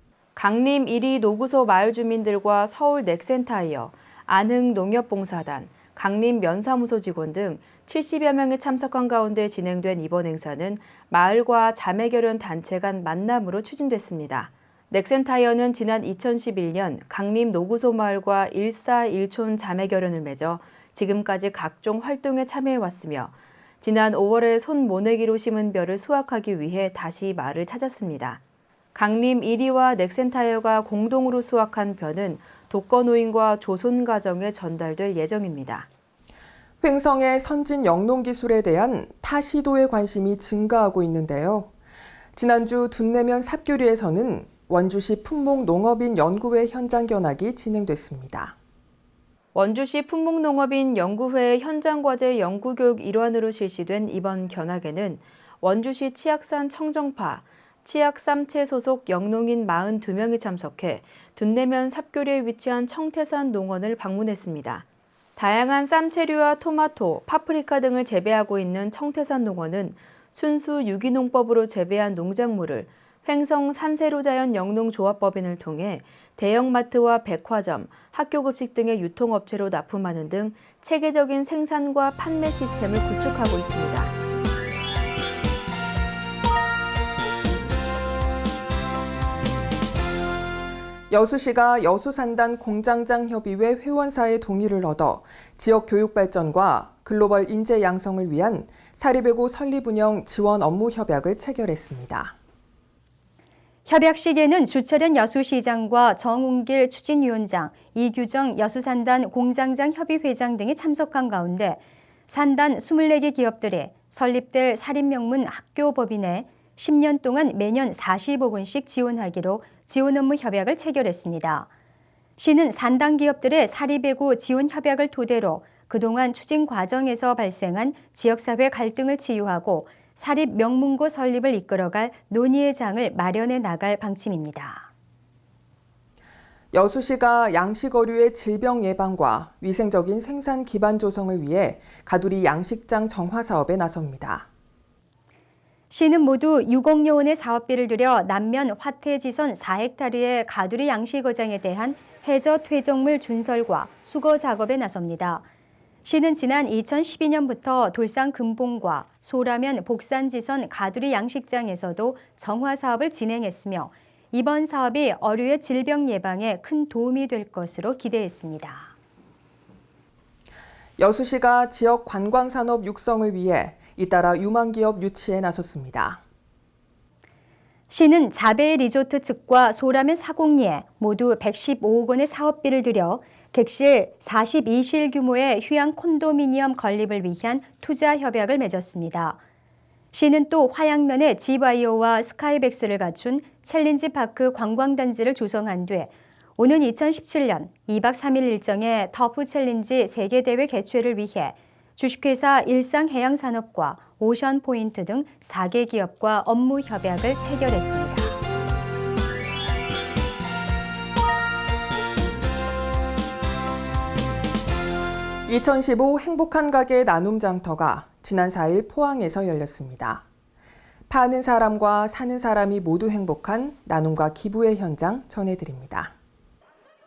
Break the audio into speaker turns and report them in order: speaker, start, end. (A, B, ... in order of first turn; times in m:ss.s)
0:00.4-0:28.4 A
0:28.9-0:35.9 A
0:36.8-0:41.7 B
0:42.3-0:48.5 B
0:49.5-1:04.8 A
1:05.4-1:24.1 A
1:31.1-1:42.4 B
1:43.8-2:01.7 C
2:02.4-2:14.9 C
2:16.7-2:24.5 B
2:25.9-2:35.4 C
2:36.0-2:48.9 C
2:51.0-2:56.2 B
2:57.9-3:09.4 C
3:10.1-3:28.4 C
3:35.5-3:40.2 B
3:41.1-3:46.1 B